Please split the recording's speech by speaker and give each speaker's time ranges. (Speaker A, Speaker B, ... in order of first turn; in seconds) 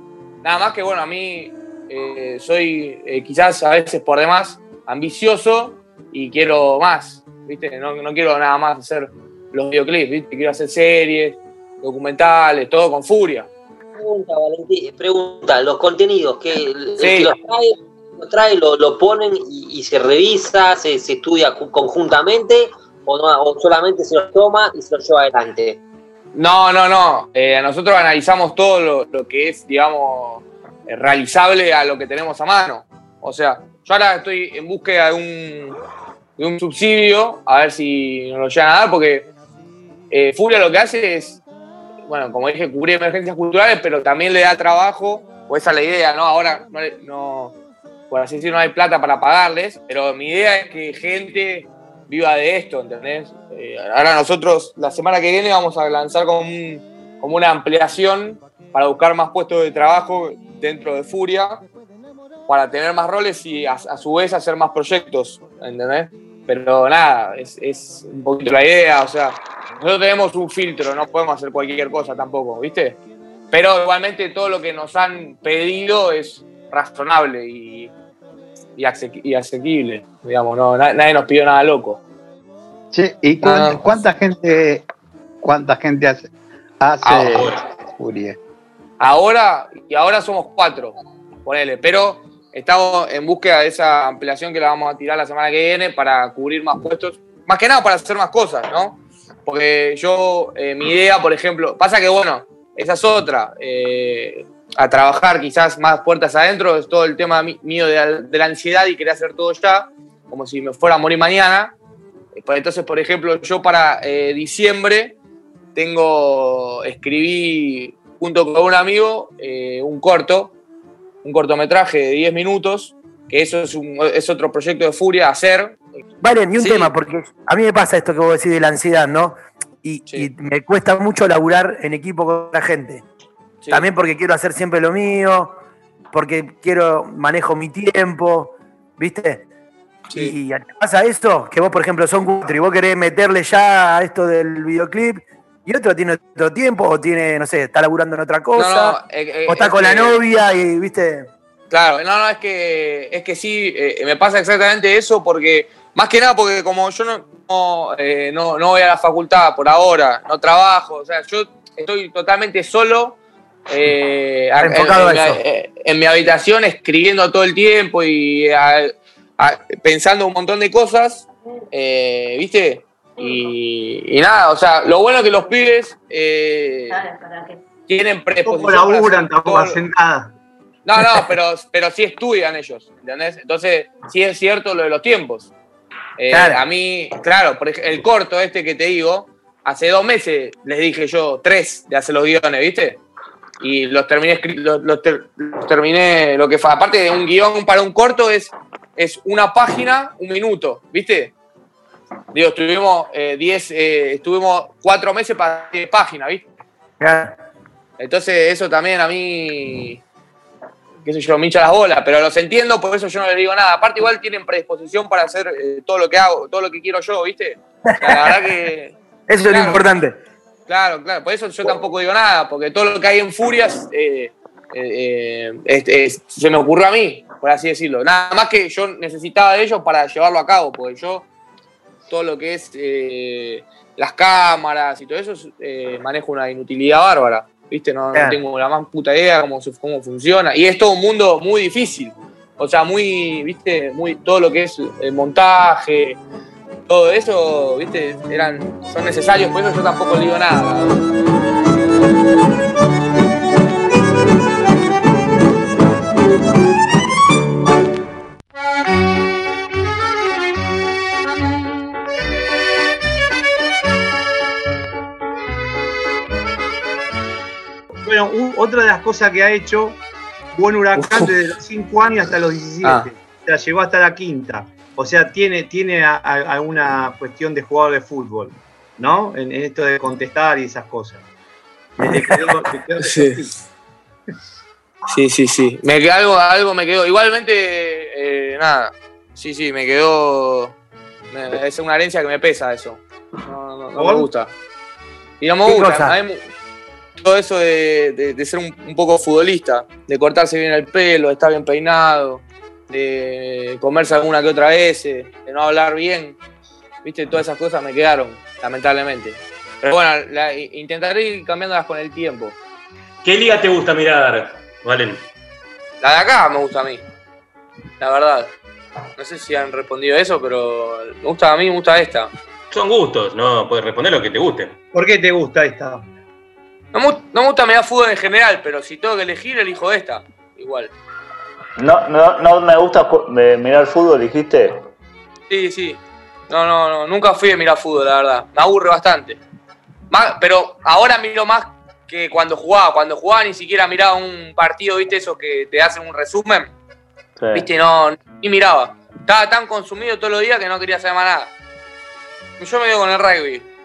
Speaker A: 0.4-13.5, 17.0-17.3, 26.3-35.8, 36.4-39.3, 40.1-41.4, 42.1-47.5, 48.1-61.6, 62.5-73.0, 73.5-77.9, 78.8-82.0, 83.4-83.8, 87.0-87.3, 89.0-111.7, 112.4-115.2, 115.8-120.5, 121.2-125.8, 126.6-126.9, 133.6-133.9, 140.1-140.3, 148.6-150.2, 151.7-163.2, 163.7-177.1, 177.9-179.8, 180.9-185.5, 186.2-193.0, 193.6-201.3, 202.3-206.4, 208.0-210.0, 211.1-219.9, 220.7-231.3, 232.1-246.2, 246.9-251.0, 271.0-271.3, 272.8-273.1, 283.0-283.4, 285.1-290.8, 291.3-294.5, 295.4-296.5, 297.2-306.4, 307.0-312.6, 316.0-317.0, 318.0-318.5, 319.2-322.3, 326.9-330.9, 335.5-339.4, 340.1-346.7, 347.5-351.5, 352.6-353.7
Speaker B: 14.0-25.8
Speaker C: 82.9-84.8, 85.4-86.3, 86.8-88.4
Speaker D: 87.3-87.6, 313.2-315.2, 322.7-324.8
Speaker E: 126.2-133.1, 133.7-135.6, 136.1-139.5, 140.1-151.3, 164.6-165.4, 186.3-186.6, 207.0-207.3, 218.0-218.4, 219.3-220.2, 282.0-282.4, 295.6-296.1
Speaker F: 178.4-180.3, 268.0-270.0, 270.5-281.2, 282.1-283.5, 294.0-294.3, 324.9-326.1
Speaker G: 331.8-334.9, 347.4-347.7